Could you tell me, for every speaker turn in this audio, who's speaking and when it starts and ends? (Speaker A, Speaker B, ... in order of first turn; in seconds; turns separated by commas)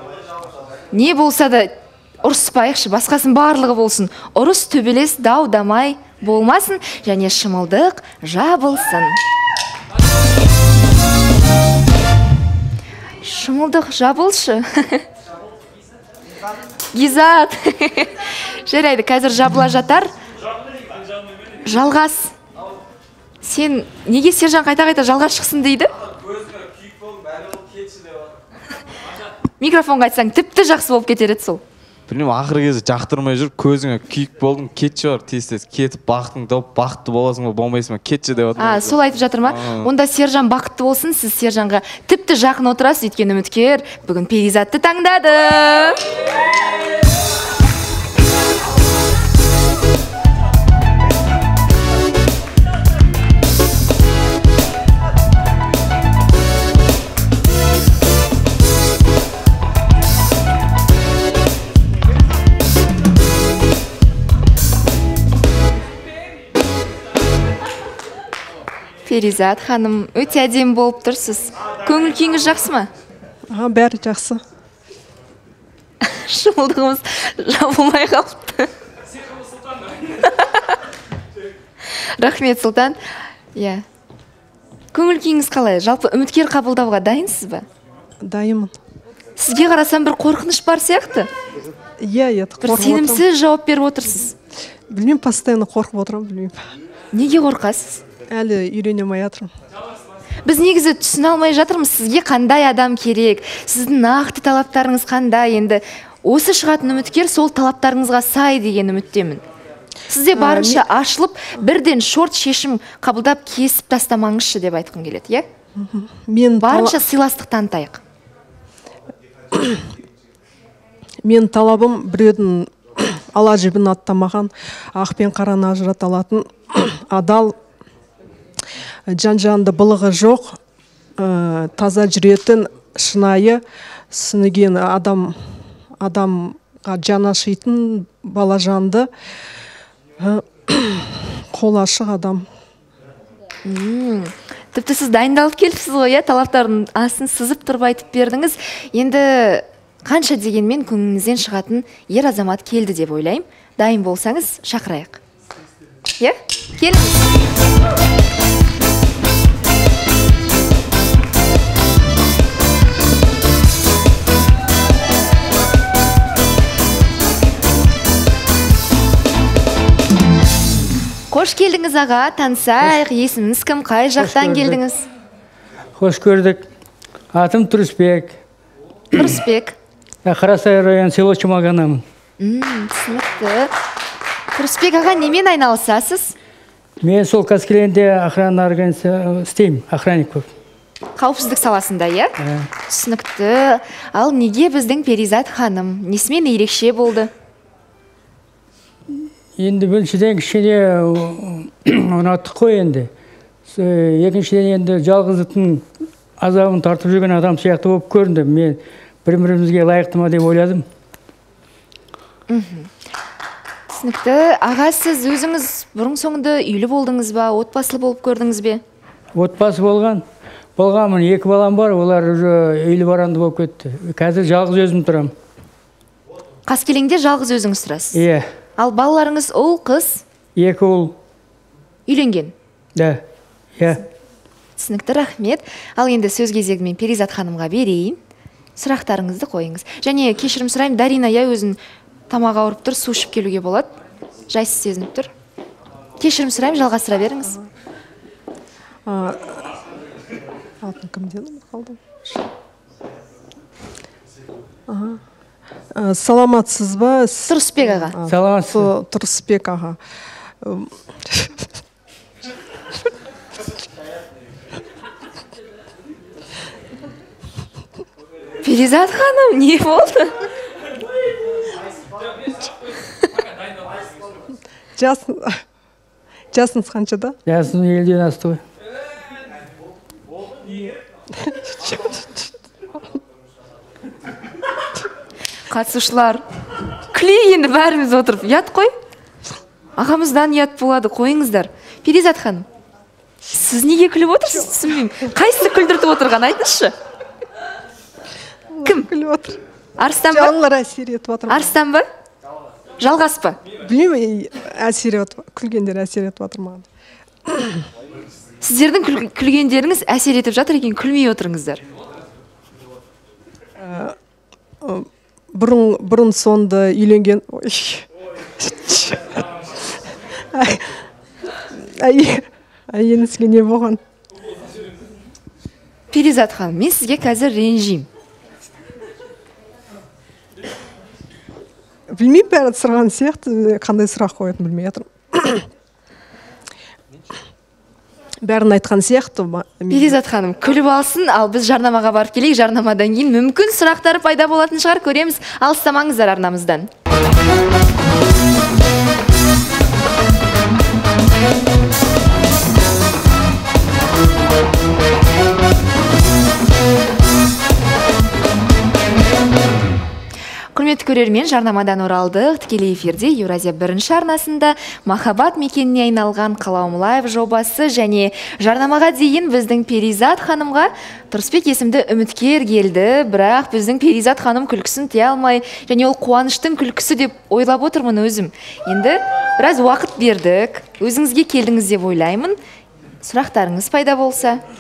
Speaker A: 0.9-1.7, Speaker A: 2.2-9.2, Speaker A: 13.2-15.0, Speaker A: 16.9-20.1, Speaker A: 21.6-22.3, Speaker A: 23.4-25.9, Speaker A: 29.6-31.6, Speaker B: 32.1-39.9, Speaker A: 38.6-46.0, Speaker A: 69.0-72.9, Speaker C: 73.5-74.4, Speaker A: 76.0-78.7, Speaker A: 82.2-83.0, Speaker A: 83.5-83.8, Speaker A: 84.9-87.6, Speaker C: 88.2-88.7, Speaker A: 89.4-91.3, Speaker C: 92.0-93.2, Speaker A: 92.6-94.3, Speaker C: 94.9-96.6, Speaker A: 97.1-98.0, Speaker C: 98.3-99.5, Speaker A: 100.4-109.4, Speaker A: 110.1-115.5, Speaker C: 110.3-110.8, Speaker C: 115.8-117.0, Speaker A: 116.6-118.0, Speaker C: 119.5-119.8, Speaker C: 121.2-127.5, Speaker C: 129.1-130.6, Speaker C: 131.2-135.4, Speaker C: 136.0-139.1, Speaker C: 140.2-142.4, Speaker A: 143.6-155.2, Speaker A: 156.2-157.1, Speaker A: 171.3-175.0, Speaker D: 174.2-174.8, Speaker D: 175.9-176.7, Speaker D: 177.3-178.4, Speaker A: 179.2-179.7, Speaker D: 180.2-182.0, Speaker A: 182.4-183.7, Speaker A: 184.5-186.3, Speaker D: 187.0-190.4, Speaker A: 191.2-192.3, Speaker D: 192.4-192.7, Speaker A: 192.9-197.3, Speaker D: 199.6-203.1, Speaker D: 203.7-205.8, Speaker D: 206.4-210.8, Speaker A: 212.5-212.9, Speaker A: 213.9-218.8, Speaker D: 219.3-220.2, Speaker D: 220.8-225.3, Speaker A: 226.7-228.2, Speaker D: 228.1-228.5, Speaker A: 228.8-230.2, Speaker D: 230.6-231.1, Speaker A: 232.1-232.5, Speaker D: 232.9-233.2, Speaker D: 233.8-234.0, Speaker A: 234.8-238.2, Speaker A: 238.8-241.8, Speaker A: 242.3-243.9, Speaker A: 244.5-245.3, Speaker A: 246.2-247.6, Speaker C: 249.1-249.7, Speaker C: 250.8-252.3, Speaker C: 254.9-255.2, Speaker C: 255.9-260.0, Speaker A: 257.5-258.1, Speaker D: 258.3-258.9, Speaker C: 260.6-261.5, Speaker A: 268.6-270.3, Speaker C: 274.9-275.6, Speaker C: 276.5-277.4, Speaker D: 277.4-278.6, Speaker C: 281.4-282.1, Speaker A: 285.7-286.4, Speaker A: 287.1-288.9, Speaker A: 290.0-292.6, Speaker A: 293.5-296.9, Speaker C: 298.7-299.6, Speaker A: 300.0-300.6, Speaker C: 300.3-301.7, Speaker A: 301.5-302.0, Speaker A: 303.0-303.6, Speaker C: 303.8-306.9, Speaker C: 307.5-307.8, Speaker A: 308.6-311.8, Speaker C: 313.8-314.1, Speaker C: 314.8-318.0, Speaker C: 318.6-319.3, Speaker C: 320.5-320.9, Speaker C: 321.8-324.0, Speaker A: 326.1-328.1, Speaker C: 332.1-335.6, Speaker C: 338.4-340.2, Speaker A: 339.9-346.9, Speaker A: 360.7-382.6, Speaker A: 383.2-384.6